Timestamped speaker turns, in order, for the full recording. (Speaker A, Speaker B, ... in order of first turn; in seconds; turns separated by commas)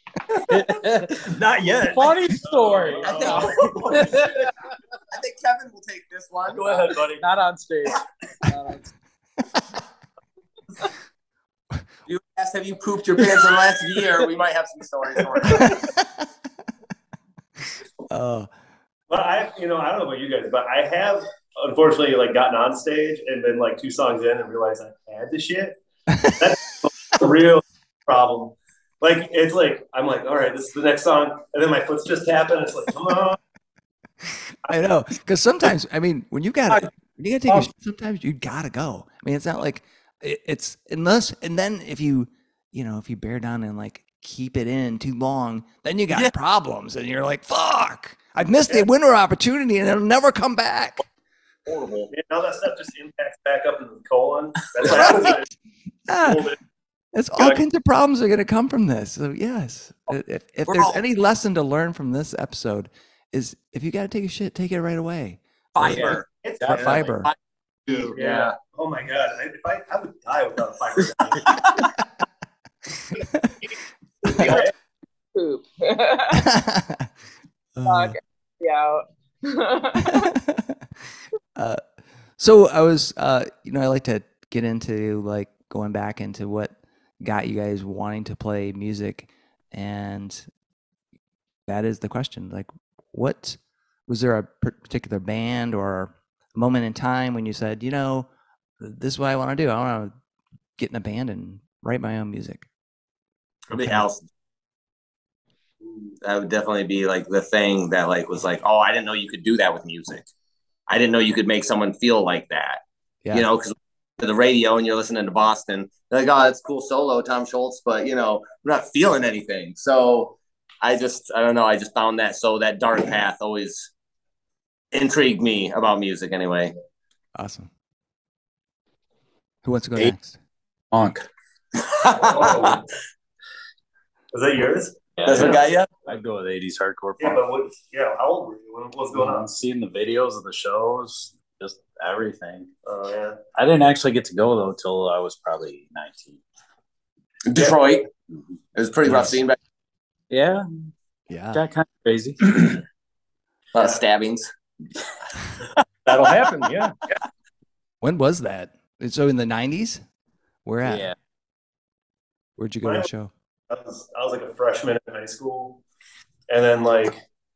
Speaker A: 0.5-4.3, Speaker B: 1.2-4.1, Speaker C: 2.5-4.4, Speaker D: 3.0-4.3, Speaker D: 5.1-6.8, Speaker B: 6.5-7.2, Speaker A: 7.2-8.9, Speaker D: 12.1-15.8, Speaker E: 18.1-18.5, Speaker C: 19.1-25.8, Speaker C: 26.4-33.4, Speaker E: 34.2-51.0, Speaker D: 51.7-52.1, Speaker C: 52.1-55.5, Speaker E: 54.9-55.4, Speaker E: 56.1-56.5, Speaker C: 56.2-56.6, Speaker E: 57.1-66.0, Speaker D: 60.7-61.0, Speaker D: 65.8-66.3, Speaker C: 66.0-67.1, Speaker E: 66.7-67.3, Speaker D: 66.9-67.3, Speaker D: 67.9-68.5, Speaker C: 68.0-71.7, Speaker E: 73.2-73.5, Speaker C: 74.3-74.7, Speaker F: 75.3-76.4, Speaker E: 76.3-77.1, Speaker E: 77.8-78.2, Speaker F: 77.8-80.3, Speaker E: 80.0-80.8, Speaker E: 81.5-81.8, Speaker E: 82.4-90.5, Speaker E: 91.7-98.3, Speaker E: 98.8-100.1, Speaker E: 100.8-102.7, Speaker E: 103.7-104.1, Speaker D: 103.7-104.3, Speaker D: 106.2-110.3, Speaker D: 110.9-112.8, Speaker D: 113.3-123.9, Speaker D: 124.9-126.7, Speaker E: 127.3-127.7, Speaker E: 129.7-130.4, Speaker A: 130.9-131.3, Speaker D: 131.8-132.8, Speaker C: 132.1-132.8, Speaker C: 134.3-135.6, Speaker D: 135.2-135.9, Speaker A: 136.1-137.4, Speaker C: 137.2-139.5, Speaker A: 139.1-142.7, Speaker C: 142.8-143.4, Speaker A: 143.6-146.4, Speaker D: 147.5-148.1, Speaker D: 148.8-149.6, Speaker E: 149.1-149.4, Speaker A: 150.3-150.7, Speaker E: 151.3-151.7, Speaker A: 151.5-152.8, Speaker D: 153.7-154.5, Speaker B: 156.1-157.0, Speaker A: 156.1-156.4, Speaker E: 158.0-160.0, Speaker E: 160.7-161.1, Speaker A: 160.8-161.2, Speaker E: 162.6-163.3, Speaker C: 162.8-163.1, Speaker C: 163.7-165.8, Speaker C: 166.5-167.2